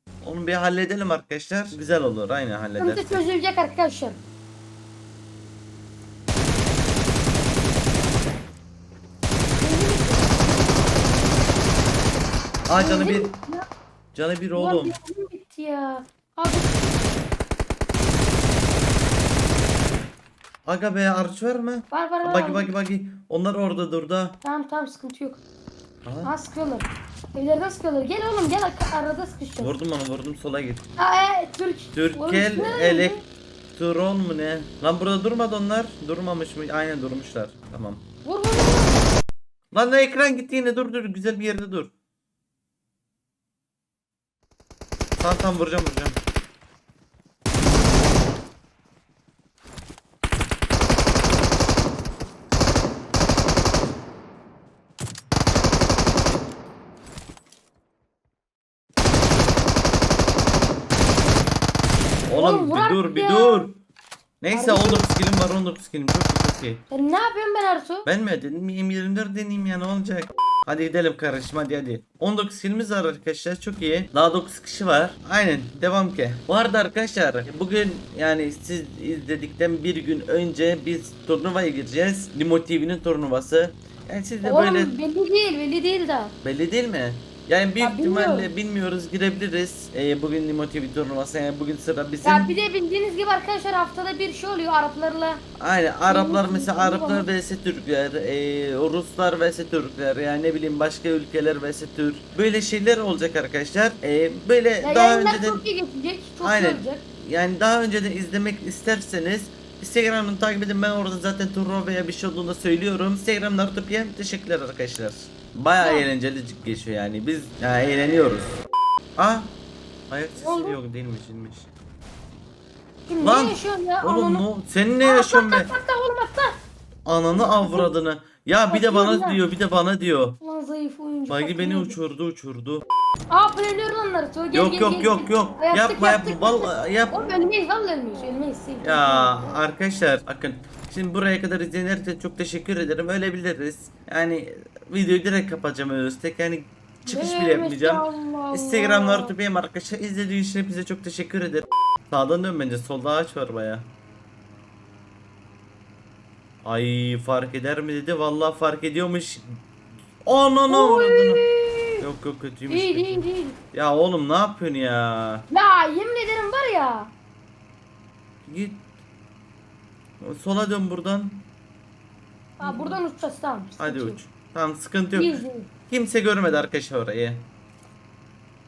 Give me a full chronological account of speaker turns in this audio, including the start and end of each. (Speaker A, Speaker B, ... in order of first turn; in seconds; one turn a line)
Speaker A: 0.2-3.2
Speaker B: 2.8-4.2
Speaker B: 9.6-10.4
Speaker A: 12.7-13.3
Speaker B: 12.8-13.6
Speaker A: 14.1-14.9
Speaker B: 14.6-17.0
Speaker A: 20.7-24.4
Speaker B: 21.9-22.7
Speaker B: 24.4-25.4
Speaker A: 26.1-26.3
Speaker B: 26.2-29.8
Speaker A: 29.6-30.9
Speaker B: 31.0-33.2
Speaker A: 31.9-33.2
Speaker A: 33.7-38.1
Speaker B: 38.2-39.0
Speaker A: 39.7-41.9
Speaker A: 45.2-46.2
Speaker A: 62.3-63.8
Speaker B: 62.4-63.7
Speaker A: 64.4-66.8
Speaker B: 64.5-65.1
Speaker B: 66.9-68.1
Speaker A: 68.1-84.9
Speaker B: 84.4-86.3
Speaker A: 86.4-92.5
Speaker B: 87.8-88.5
Speaker B: 92.2-95.4
Speaker A: 95.6-105.6
Speaker B: 96.1-97.3
Speaker B: 104.8-107.0
Speaker A: 106.4-118.6
Speaker B: 115.8-116.1
Speaker A: 119.2-119.6
Speaker A: 120.1-121.7
Speaker B: 120.4-120.8
Speaker B: 123.1-124.5
Speaker A: 123.2-125.7
Speaker B: 125.0-126.5
Speaker A: 127.1-130.4
Speaker B: 127.3-127.9
Speaker B: 128.7-129.4
Speaker B: 130.4-132.0
Speaker A: 131.3-132.8
Speaker B: 133.3-139.6
Speaker A: 134.5-137.3
Speaker A: 138.8-153.9
Speaker B: 147.1-149.3
Speaker A: 156.6-159.6
Speaker A: 160.2-161.5
Speaker B: 160.7-161.9
Speaker A: 162.0-165.5
Speaker B: 162.7-163.6
Speaker B: 165.5-167.1
Speaker A: 168.4-168.9
Speaker A: 170.2-171.5
Speaker B: 172.6-174.2
Speaker A: 172.6-173.0
Speaker A: 173.8-177.5
Speaker B: 175.1-175.7